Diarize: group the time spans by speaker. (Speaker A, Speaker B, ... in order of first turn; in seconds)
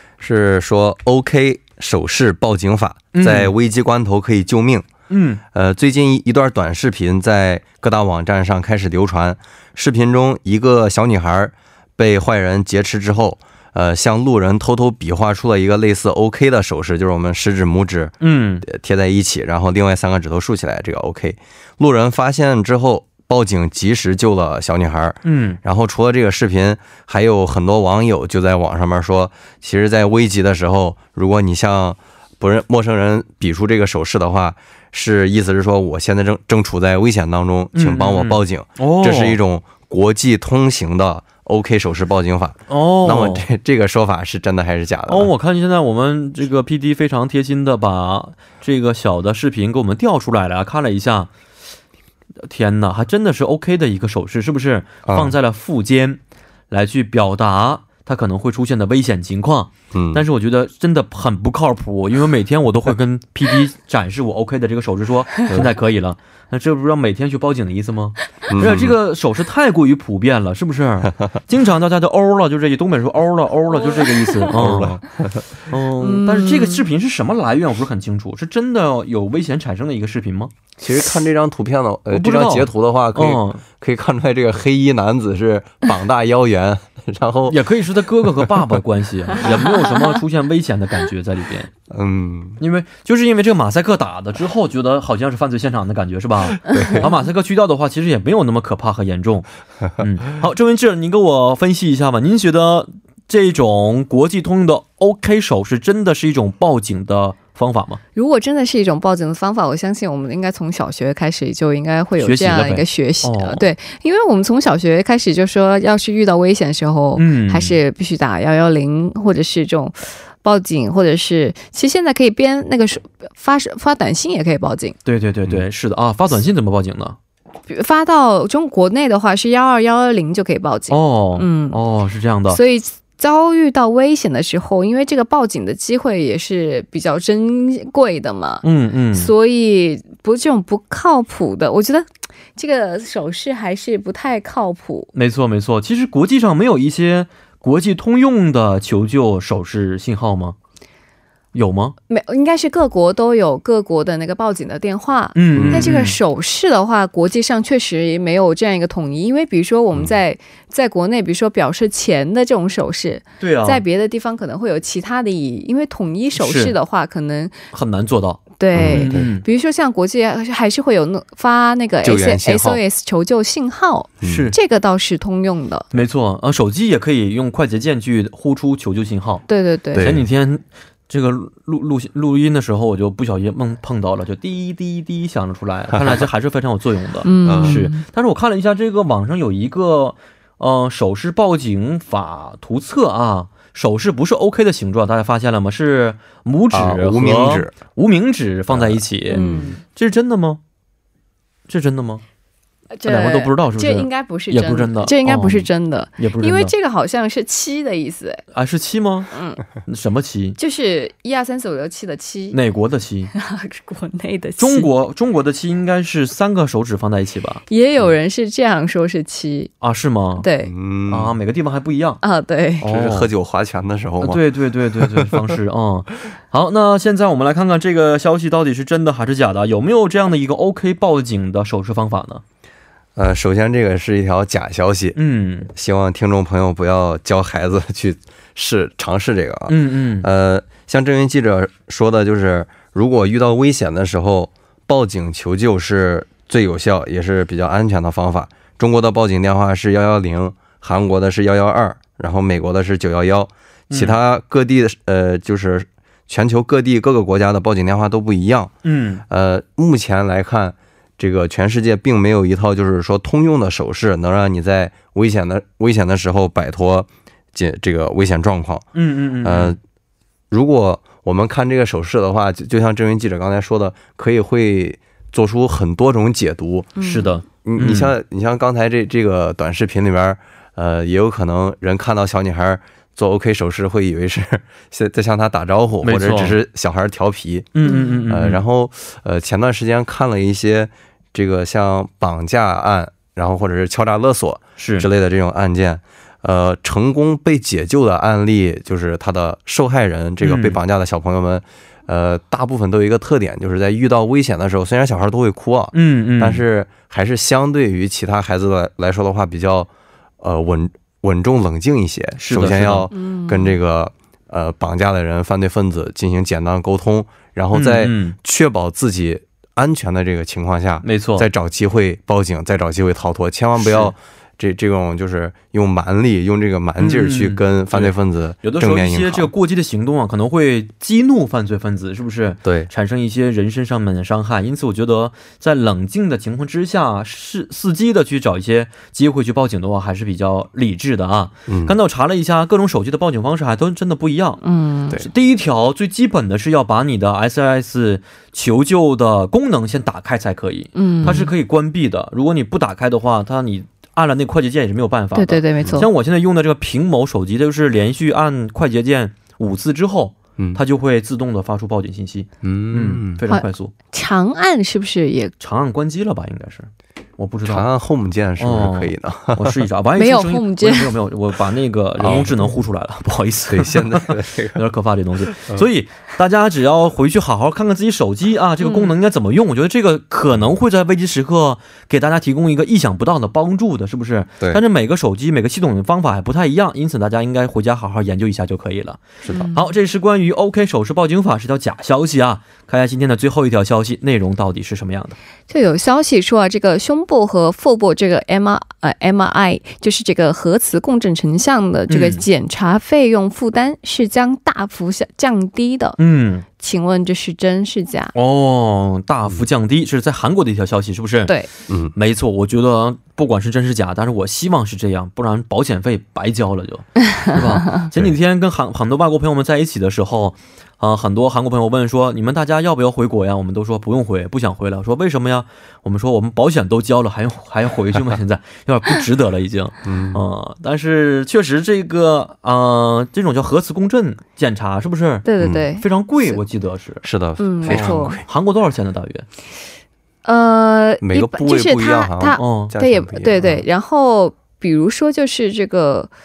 Speaker A: 0.2-4.9, 5.5-45.3, 55.1-55.4, 59.9-60.2, 68.5-69.0, 74.5-75.5, 80.8-87.6, 88.2-88.5, 91.9-92.6, 96.6-97.1, 155.5-155.9, 168.8-169.3, 172.0-172.8, 174.2-174.5, 179.9-180.3, 185.9-186.2, 187.4-187.8, 196.7-197.7, 198.7-199.7, 220.7-221.4, 222.8-224.4, 224.9-225.6, 233.2-235.2, 235.7-258.7, 259.3-268.9, 269.4-269.8, 270.5-277.0, 277.6-309.9, 310.4-329.5, 332.6-332.9, 341.7-341.9, 362.6-363.4, 367.7-369.8, 372.2-372.7, 373.7-374.8, 389.4-389.7, 430.1-430.4, 435.6-435.9, 437.2-438.4, 441.2-443.8
Speaker B: 3.1-3.5, 5.1-5.4, 18.2-18.7, 25.2-25.6, 37.7-39.4, 42.7-43.5, 45.1-51.3, 52.4-56.2, 56.7-75.0, 75.6-80.5, 82.1-83.6, 87.5-91.7, 92.6-99.5, 100.0-108.0, 112.2-113.7, 117.2-117.8, 125.1-127.2, 130.9-132.6, 138.6-139.3, 145.1-150.6, 151.5-152.0, 155.3-156.2, 163.4-163.8, 166.4-166.8, 167.7-169.4, 174.2-174.6, 175.9-179.5, 180.0-200.6, 201.7-202.2, 203.1-206.7, 208.5-209.3, 209.9-210.6, 212.5-213.3, 214.6-217.6, 219.8-220.5, 221.1-222.2, 222.8-223.3, 224.2-232.4, 235.2-235.7, 239.7-240.3, 253.9-254.2, 258.8-259.2, 268.9-269.8, 277.0-278.1, 286.0-286.6, 287.8-288.6, 294.8-295.1, 300.4-300.8, 305.9-306.6, 312.4-313.1, 317.7-318.4, 321.0-321.5, 323.8-324.1, 327.0-344.6, 345.1-363.9, 365.6-367.9, 368.6-389.2, 389.8-395.4, 402.1-402.4, 406.2-406.7, 408.3-411.5, 412.1-435.5, 436.0-437.2, 437.9-439.5, 442.6-442.9
Speaker C: 73.9-74.5, 76.0-76.8, 108.2-125.0, 127.7-131.8, 132.5-145.1, 152.1-167.6, 168.6-175.9, 179.5-180.1, 187.2-188.1, 199.3-199.8, 202.9-208.4, 209.3-209.6, 210.6-212.6, 213.3-214.9, 217.7-219.7, 220.4-220.7, 222.2-222.9, 277.0-277.4, 287.8-288.2, 313.1-313.7, 344.6-345.2, 350.9-351.5, 355.4-356.1, 363.5-365.5, 370.2-371.1, 378.8-379.1, 389.5-389.9, 395.7-406.2, 406.8-408.3, 435.4-436.6, 437.6-438.4, 440.4-446.3